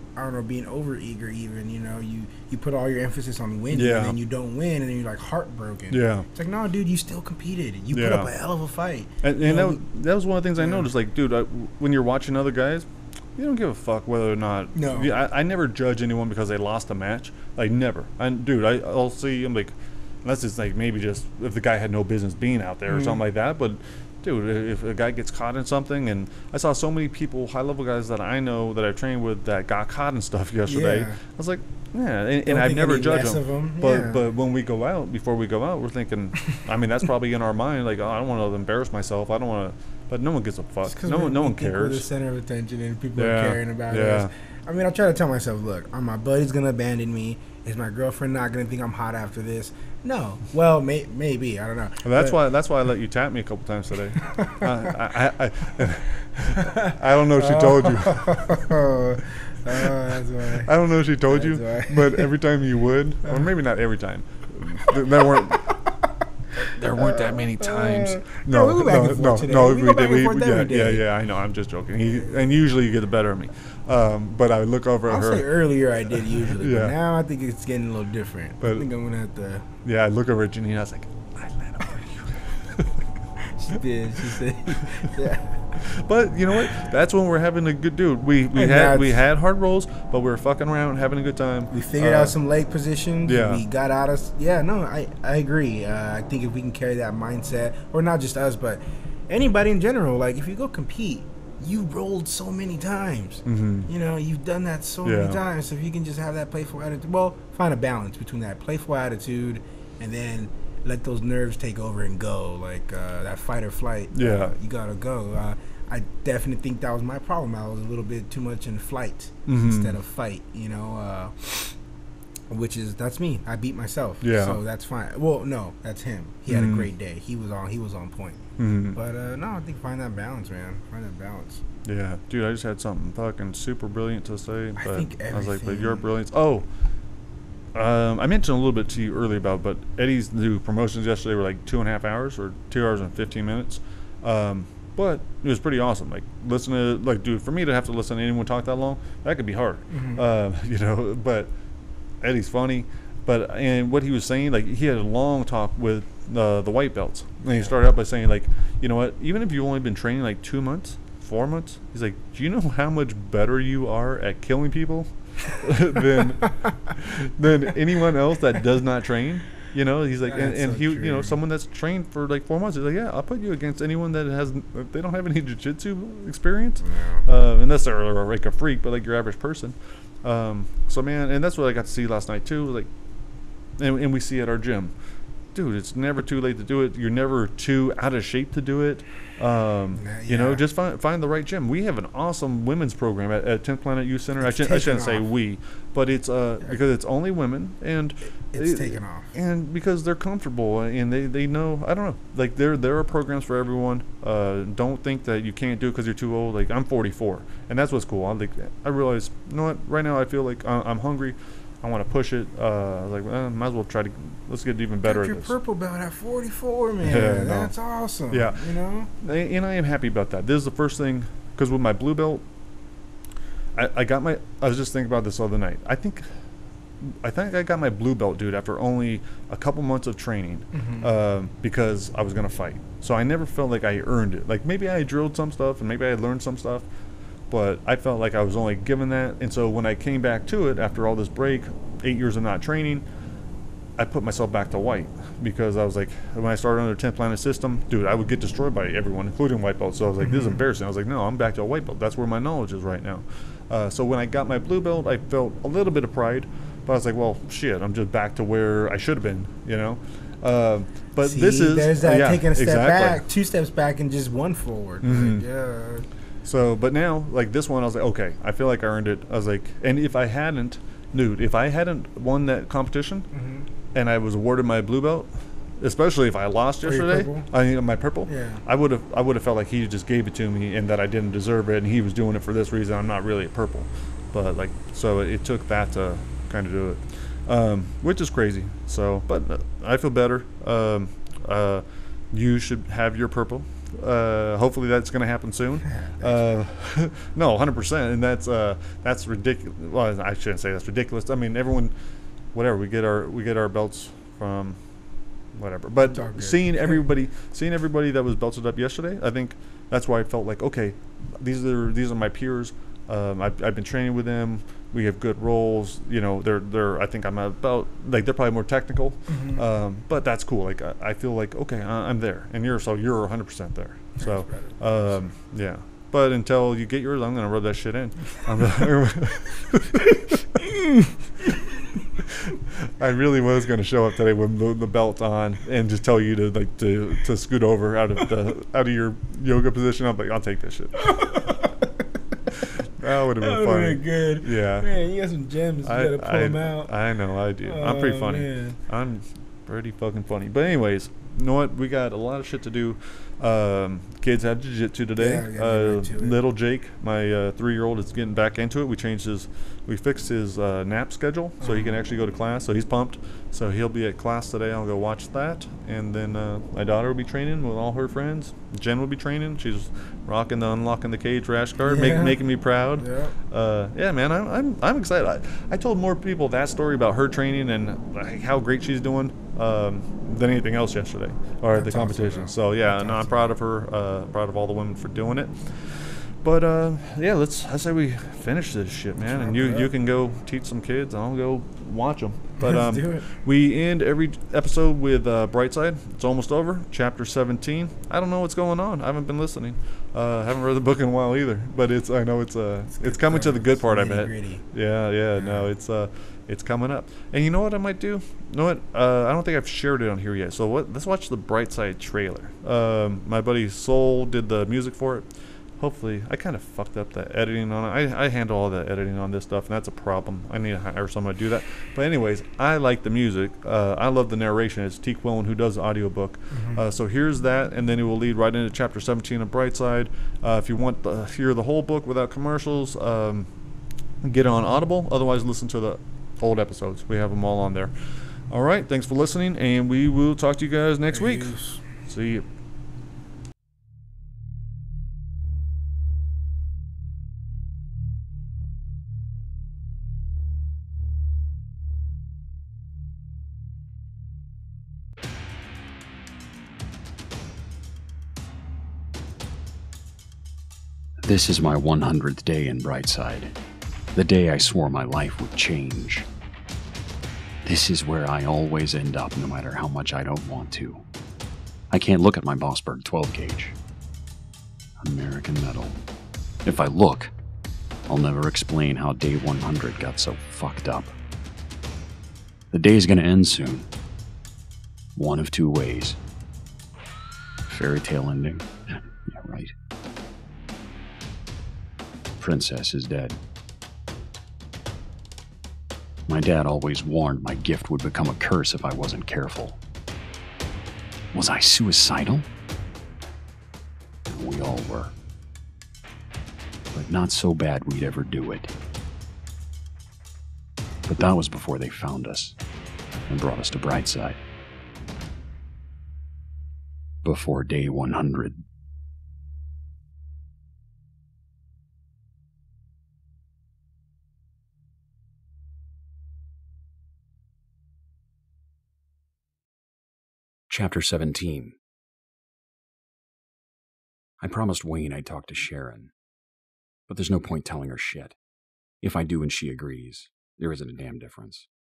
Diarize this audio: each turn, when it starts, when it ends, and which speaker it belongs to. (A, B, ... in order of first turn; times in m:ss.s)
0:00.2-0:09.8 A
0:03.7-0:04.1 B
0:05.9-0:06.2 B
0:07.9-0:08.3 B
0:09.2-0:42.1 B
0:10.6-0:10.9 A
0:14.7-0:15.1 A
0:22.9-0:23.2 A
0:30.6-0:31.2 A
0:32.4-0:34.2 A
0:40.8-0:52.4 A
0:43.2-0:44.3 B
0:52.0-0:58.7 B
0:54.2-0:54.9 A
0:56.5-1:02.3 A
1:00.6-1:05.8 B
1:04.9-1:06.1 A
1:06.6-1:15.5 B
1:06.9-1:11.1 A
1:15.1-1:19.7 A
1:16.4-1:16.9 B
1:18.6-1:18.9 B
1:19.8-1:23.0 B
1:23.5-1:25.7 A
1:24.7-1:25.1 B
1:25.8-1:32.3 B
1:28.5-1:29.2 A
1:31.7-2:01.8 A
1:33.2-1:33.6 B
1:43.4-1:43.9 B
1:45.0-1:45.4 B
1:54.1-1:54.5 B
1:59.4-2:00.0 B
2:02.5-2:11.6 A
2:04.2-2:04.6 B
2:06.5-2:06.9 B
2:08.6-2:09.0 B
2:11.8-2:16.7 B
2:14.8-2:16.0 A
2:17.7-2:31.6 B
2:29.9-2:30.2 A
2:32.2-3:02.9 B
2:50.2-2:51.4 A
2:56.8-2:57.2 A
3:03.7-3:35.5 B
3:09.9-3:10.6 A
3:14.4-3:15.3 A
3:18.5-3:19.3 A
3:35.0-3:39.1 A
3:37.0-3:37.7 B
3:38.3-3:42.4 B
3:43.7-3:46.4 B
3:47.0-3:56.9 B
3:50.7-3:51.1 A
3:57.5-4:03.0 B
4:04.0-4:23.2 B
4:10.2-4:10.6 A
4:21.2-4:26.1 A
4:25.0-4:25.4 B
4:26.4-4:33.3 B
4:33.3-4:33.7 A
4:33.9-5:01.9 B
4:36.8-4:37.5 A
4:38.2-4:38.6 A
4:55.9-4:56.4 A
5:02.5-5:05.0 B
5:05.5-5:30.4 B
5:06.0-5:07.0 A
5:19.3-5:19.6 A
5:24.2-5:25.2 A
5:32.2-5:41.5 B
5:41.1-5:42.0 A
5:42.8-5:44.9 B
5:43.4-5:47.0 A
5:45.8-7:13.5 B
5:47.6-5:48.8 A
5:55.2-5:56.4 A
6:01.6-6:02.0 A
6:11.8-6:12.4 A
6:13.0-6:13.3 A
6:21.7-6:23.5 A
6:29.2-6:29.9 A
6:32.6-6:33.2 A
6:42.9-6:44.6 A
6:45.3-6:45.7 A
7:06.5-7:06.8 A
7:14.2-7:22.4 B
7:21.1-7:21.8 A
7:41.2-7:43.6 C
7:44.1-7:46.2 C
7:47.6-7:51.0 C
7:51.9-7:53.8 C
7:55.0-7:56.0 C
7:56.6-7:57.3 C
7:58.1-8:01.1 C
8:02.7-8:03.9 C
8:05.2-8:06.2 C
8:07.7-8:09.7 C
8:12.4-8:13.4 C
8:16.3-8:19.8 C
8:21.3-8:22.5 C
8:24.3-8:25.1 C
8:26.9-8:28.7 C
8:31.1-8:32.6 C
8:33.3-8:34.4 C
8:37.2-8:38.6 C
8:50.7-8:51.8 C
8:54.4-8:56.1 C
8:57.1-8:58.4 C
8:59.0-9:01.7 C